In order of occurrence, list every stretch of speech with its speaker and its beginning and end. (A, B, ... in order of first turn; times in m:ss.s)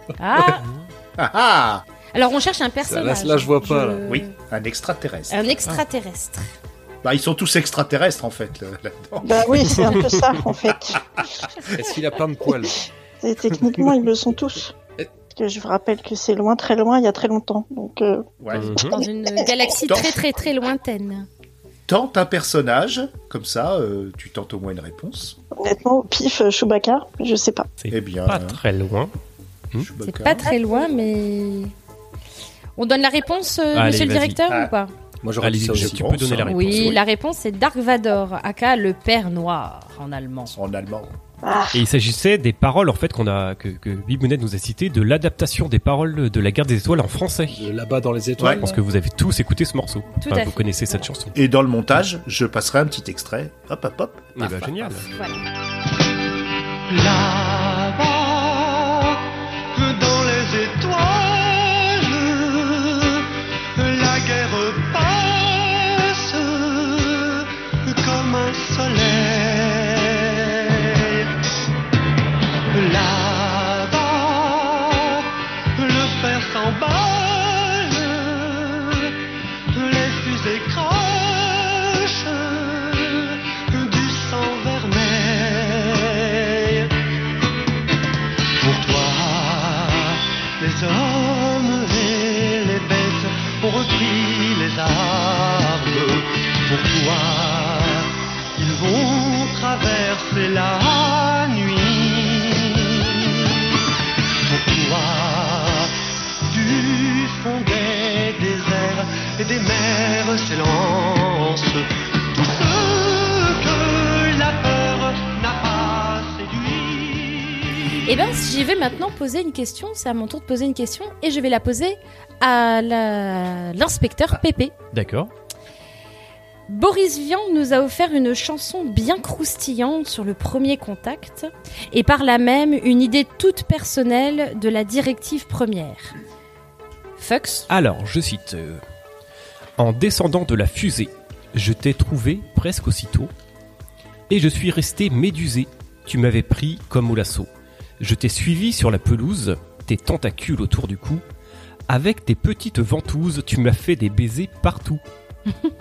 0:00.2-0:00.6 A
0:01.2-0:01.8 B
0:02.1-0:04.3 A
0:02.8-0:04.0 C
0:04.1-0:05.4 B
0:05.3-0:06.4 A
0:07.0-0:09.7 B
0:09.2-0:11.0 D
0:11.7-0:12.8 C
0:13.2-0:14.7 D
0:15.3-0:18.2 D
0:18.4-0:18.8 B
0:18.5-0:21.3 A
0:18.6-0:19.0 E
0:18.8-0:19.5 D
0:21.9-0:25.4 B
0:25.5-0:27.7 D
0:27.8-0:29.1 E
0:27.9-0:28.6 B
0:29.8-0:30.4 B
0:30.0-0:31.7 A
0:32.8-0:34.9 A
0:33.7-0:34.4 E
0:35.2-0:36.9 C
0:35.4-0:37.0 E
0:35.7-0:36.4 B
0:36.5-0:40.6 A
0:40.5-0:41.2 B
0:41.4-0:41.8 D
0:41.7-0:47.6 E
0:47.5-0:48.8 C
0:48.4-0:51.3 E
0:50.2-0:51.0 A
0:51.3-0:55.0 B
0:54.4-0:55.1 E
0:55.1-0:55.4 A
0:56.9-0:59.2 F
0:59.7-1:03.2 F
1:03.8-1:11.2 F
1:12.7-1:19.1 F
1:19.7-1:26.9 F
1:28.6-1:43.3 F
1:44.4-1:45.9 F
1:46.5-1:57.8 F
1:58.1-2:04.7 A
2:04.9-2:05.3 E
2:06.7-2:16.1 A
2:17.2-2:17.7 A
2:17.7-2:18.8 E
2:19.8-2:23.3 E
2:24.3-2:31.2 E
2:31.9-2:35.0 E